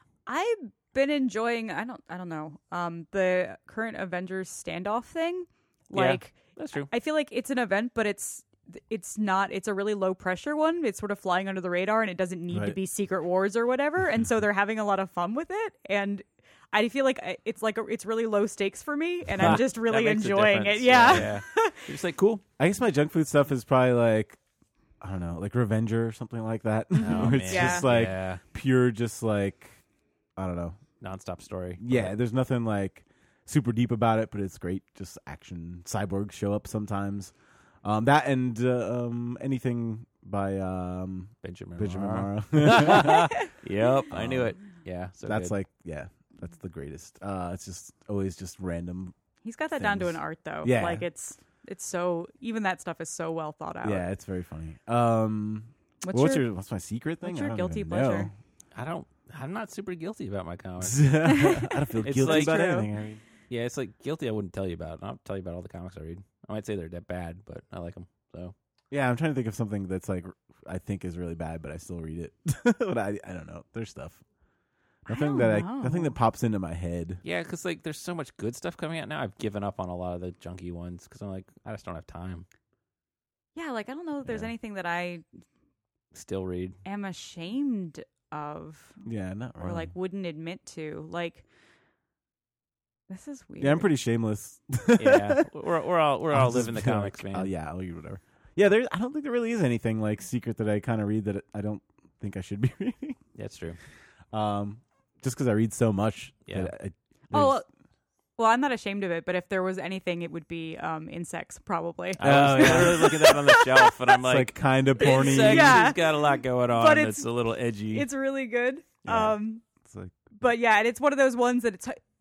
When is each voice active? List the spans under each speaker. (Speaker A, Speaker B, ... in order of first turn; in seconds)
Speaker A: 0.3-21.9, 27.0-27.9, 43.0-43.5, 49.4-54.1, 56.0-56.4, 57.2-58.3, 61.2-62.9, 75.1-76.2, 83.5-85.2, 86.8-89.0, 89.6-91.5, 93.1-93.9, 107.3-107.7, 108.4-114.0, 115.0-117.4, 117.9-119.6, 120.4-122.0
Speaker B: 5.9-6.9, 19.4-22.4, 27.0-28.4, 31.0-32.1, 41.4-45.5, 58.7-61.2, 62.0-62.6, 63.5-68.5, 77.2-82.5, 86.1-86.8, 95.0-97.5, 103.3-103.8, 112.2-118.1
Speaker C: 12.5-12.8, 22.6-24.4, 25.0-29.7, 30.4-30.8, 31.8-37.3, 37.8-43.3, 44.1-44.5, 45.2-49.1, 49.8-51.0, 53.8-58.3, 60.8-63.2, 68.9-74.2, 75.1-77.2, 89.0-89.9, 93.6-95.5, 96.3-103.2, 104.3-107.6, 112.2-113.3, 114.2-115.9, 119.0-120.2